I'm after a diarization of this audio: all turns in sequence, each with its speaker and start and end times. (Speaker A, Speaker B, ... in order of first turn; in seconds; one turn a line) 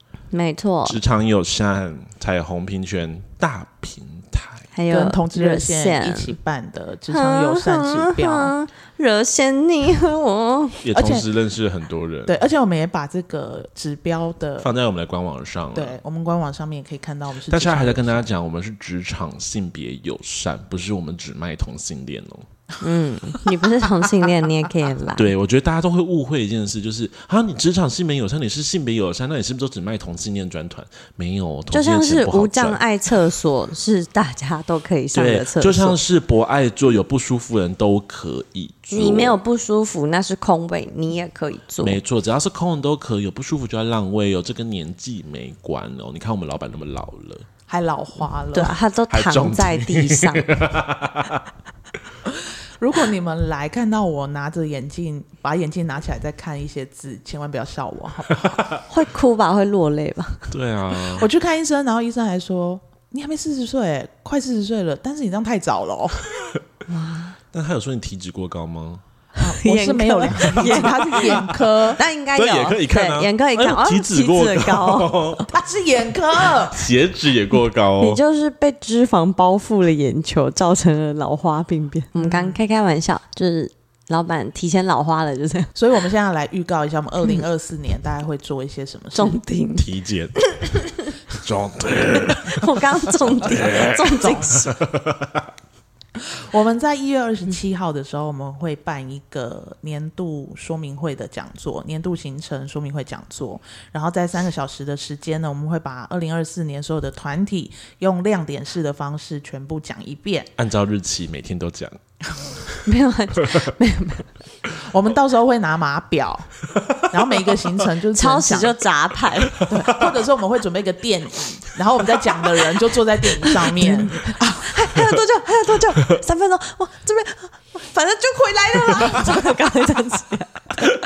Speaker A: 0.3-1.0
Speaker B: 0.8-4.7
Speaker A: 4.7-6.3
Speaker C: 4.9-8.5
Speaker A: 7.1-10.8
Speaker B: 10.8-12.4
Speaker C: 10.9-11.2
Speaker C: 12.2-14.7
Speaker B: 14.6-16.0
Speaker C: 15.7-18.3
Speaker B: 17.5-22.5
Speaker A: 22.8-25.3
Speaker B: 25.1-32.8
Speaker A: 31.7-36.0
Speaker B: 35.1-39.4
Speaker A: 38.9-42.0
Speaker B: 41.8-47.5
Speaker C: 47.7-48.7
Speaker A: 48.5-50.5
Speaker B: 49.1-51.5
Speaker C: 52.3-58.7
Speaker A: 58.9-60.5
Speaker B: 60.5-61.3
Speaker C: 61.2-66.2
Speaker A: 66.9-67.3
Speaker B: 67.5-69.0
Speaker C: 69.4-72.0
Speaker A: 69.4-75.2
Speaker B: 72.3-75.5
Speaker C: 75.5-76.8
Speaker B: 76.6-78.2
Speaker A: 78.0-85.7
Speaker C: 82.1-82.6
Speaker C: 85.7-89.4
Speaker A: 89.1-89.9
Speaker B: 89.8-90.4
Speaker A: 90.4-91.1
Speaker B: 91.4-95.5
Speaker A: 92.2-94.8
Speaker C: 94.2-94.5
Speaker C: 96.2-110.5
Speaker B: 110.6-112.0
Speaker B: 112.5-112.8
Speaker A: 112.8-114.3
Speaker B: 113.4-113.7
Speaker C: 114.7-116.5
Speaker B: 116.7-117.0
Speaker C: 117.0-118.8
Speaker A: 118.1-119.6
Speaker B: 119.5-120.2
Speaker C: 119.6-124.7
Speaker A: 123.6-130.7